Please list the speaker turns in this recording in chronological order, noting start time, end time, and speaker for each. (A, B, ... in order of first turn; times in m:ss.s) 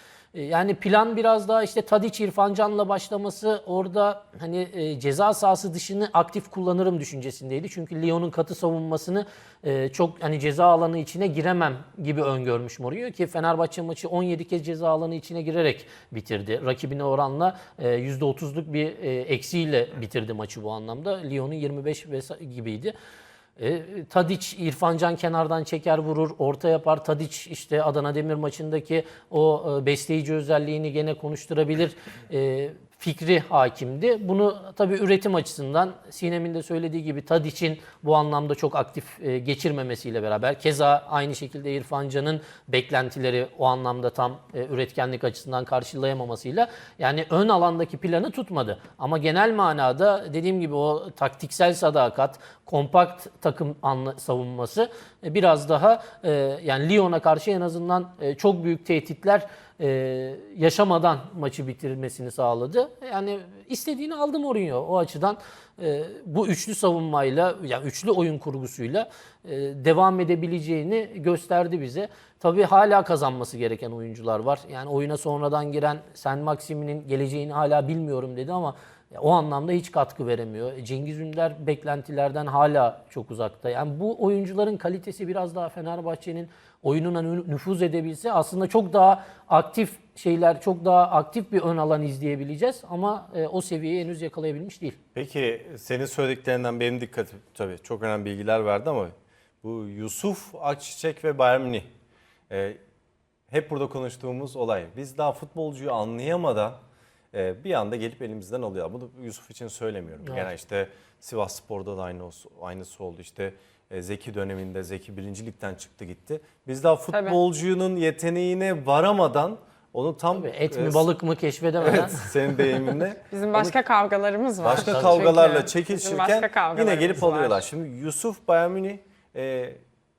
0:00.3-0:22.9 A
0:23.6-1:35.0 A
1:35.1-1:41.9 B
1:42.5-1:42.8 B
1:43.5-1:46.8 B
1:47.3-2:01.0 B
1:57.1-1:57.4 C
2:00.3-2:02.3 A
2:01.8-2:03.8 B
2:03.3-2:07.6 C
2:04.6-2:09.8 B
2:04.8-2:05.2 A